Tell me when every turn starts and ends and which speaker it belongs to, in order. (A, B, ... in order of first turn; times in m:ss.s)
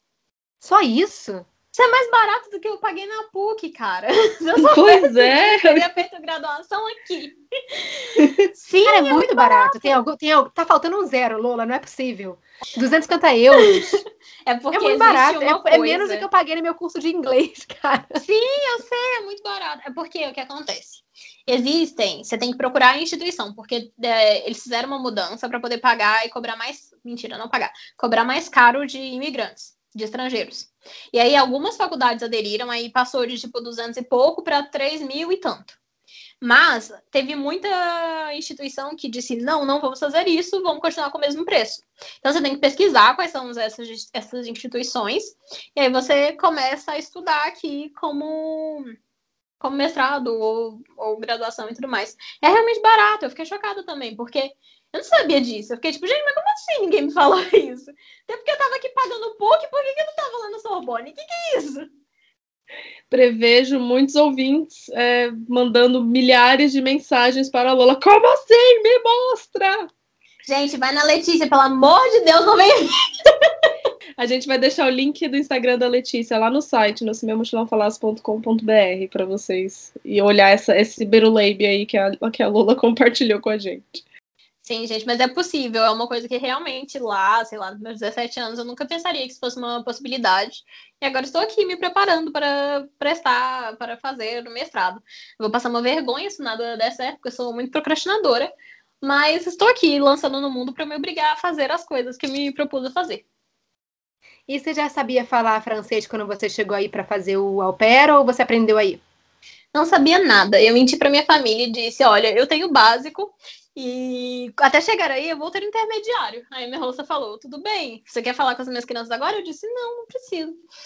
0:00.6-0:01.5 A
0:01.7-0:10.0 B
0:04.6-0:05.8 C
0:08.2-0:08.5 C
0:08.8-0:14.0 A
0:13.6-0:16.2 B
0:14.7-0:18.2 A
0:18.2-0:35.8 B
0:36.4-0:48.9 B
0:49.6-1:01.8 B
1:03.1-1:09.9 C
1:10.5-1:13.5 B
1:14.2-1:24.0 C
1:24.6-1:43.2 B
1:44.5-1:49.0 A
1:49.7-2:00.6 B